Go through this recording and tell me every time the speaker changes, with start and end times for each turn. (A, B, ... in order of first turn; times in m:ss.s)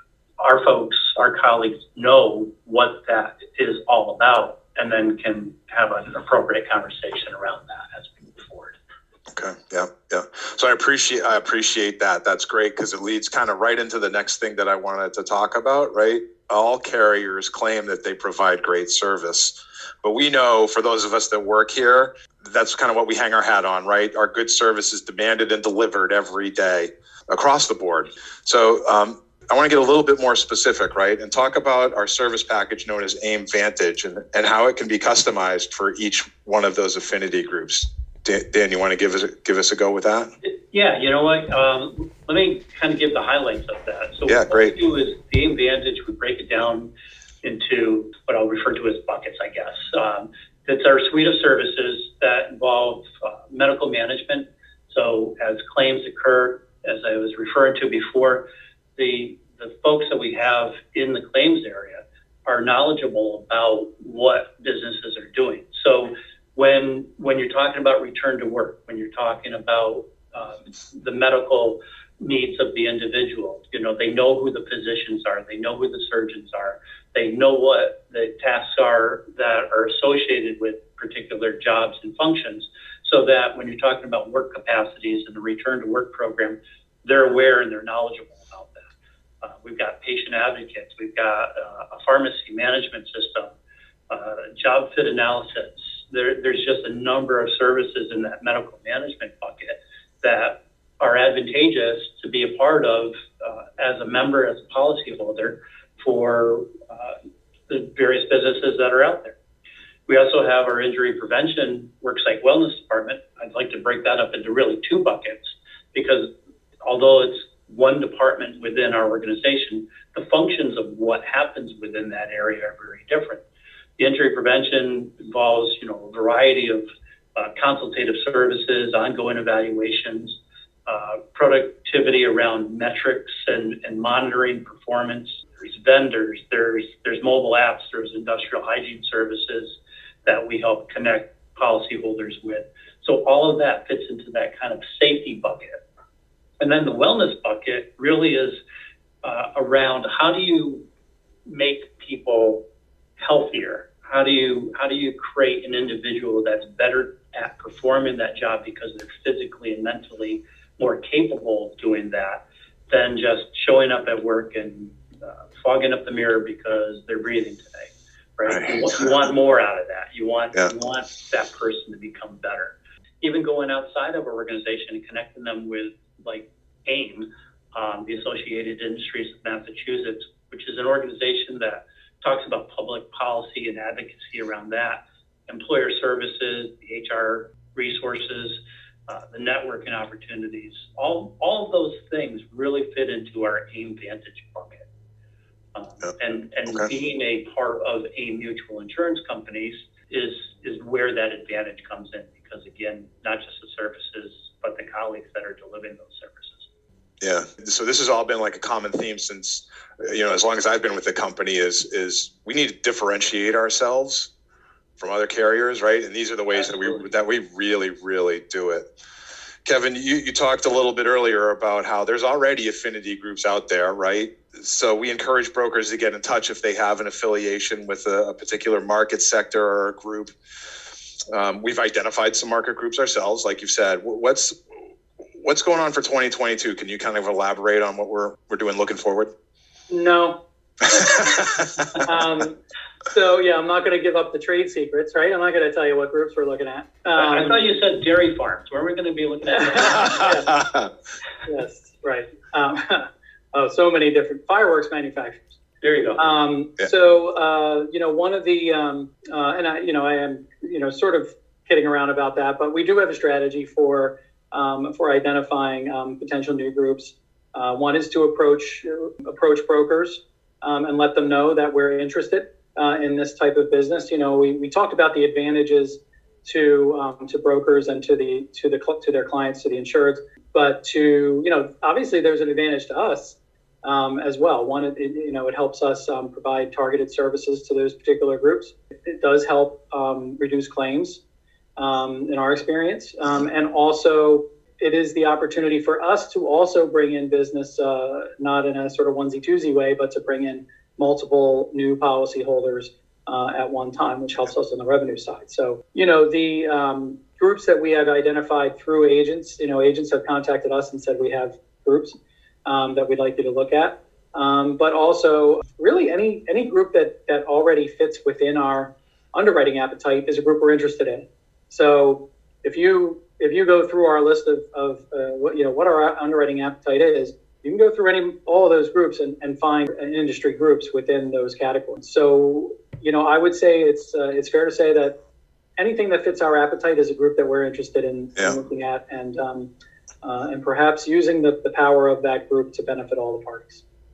0:00.4-0:08.8 A
0:09.3-0:40.3 B
0:40.4-0:46.9 A
0:44.3-0:44.7 B
0:47.4-1:28.9 A
1:29.4-1:33.5 A
1:34.1-1:47.2 A
1:47.7-1:49.3 A
1:50.1-1:56.3 A
1:56.8-2:03.4 A
2:04.0-2:25.8 A
2:26.6-2:28.6 A
2:29.2-2:30.8 A
2:31.4-2:32.6 A
2:33.2-3:14.9 A
3:15.7-3:26.7 A
3:27.2-3:34.3 B
3:35.0-3:38.9 B
3:36.5-3:37.1 A
3:39.6-3:50.3 B
3:51.3-3:54.5 B
3:55.4-3:59.3 B
3:59.9-4:01.4 C
4:02.0-4:02.6 C
4:03.1-4:07.6 C
4:07.2-4:10.4 A
4:09.5-4:10.5 C
4:11.4-4:15.4 C
4:15.8-4:16.3 A
4:16.2-4:51.2 C
4:51.8-5:35.2 C
5:35.8-5:39.7 C
5:40.2-5:43.8 C